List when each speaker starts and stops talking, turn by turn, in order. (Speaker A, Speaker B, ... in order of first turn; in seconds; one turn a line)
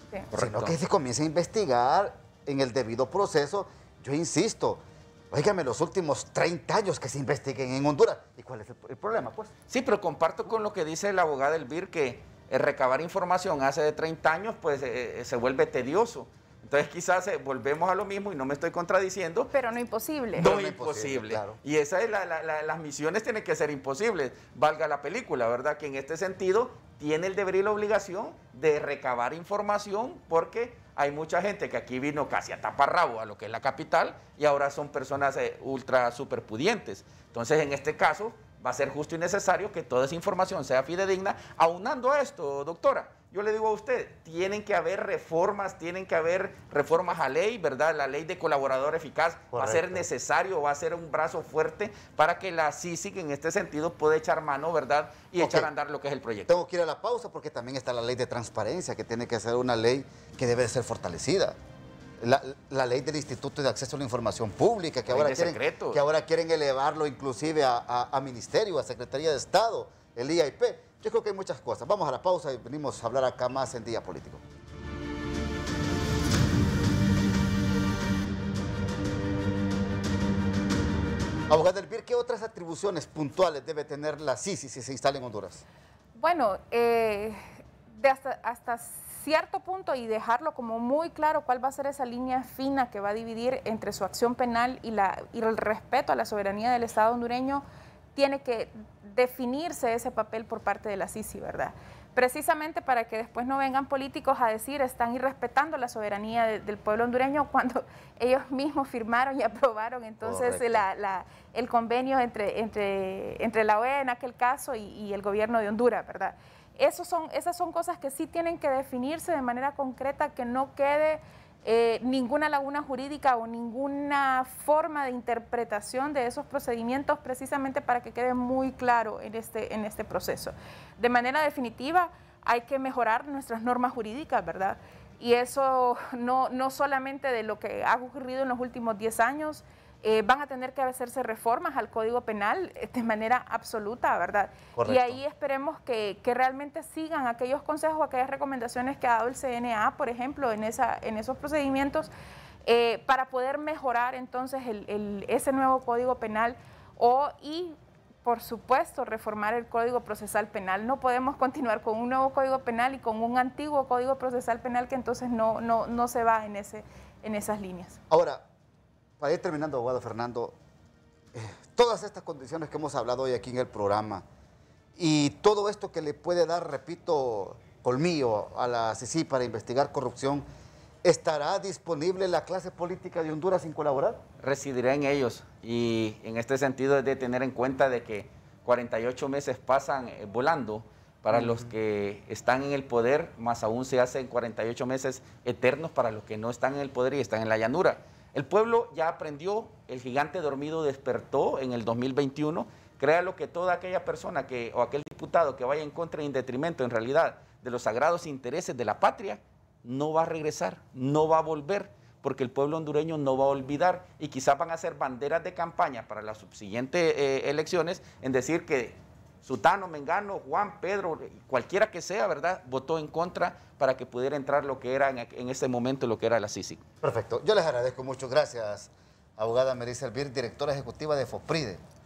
Speaker A: 0.3-0.8
Speaker B: 0.4-9.5
Speaker A: 9.7-19.5
Speaker C: 19.5-20.5
Speaker B: 20.4-21.6
Speaker A: 20.4-56.5
Speaker B: 49.5-50.1
Speaker B: 55.4-55.7
Speaker B: 56.5-61.6
Speaker B: 62.2-74.4
Speaker A: 65.1-66.0
Speaker B: 81.5-85.6
Speaker C: 86.2-97.6
Speaker C: 98.2-152.1
Speaker B: 110.2-110.8
Speaker B: 144.8-145.2
Speaker C: 152.7-168.0
Speaker B: 168.1-168.4
Speaker B: 169.2-170.6
Speaker B: 171.3-174.2
Speaker B: 175.0-180.4
Speaker B: 181.0-184.2
Speaker A: 184.4-226.8
Speaker B: 191.3-191.7
Speaker B: 227.0-231.8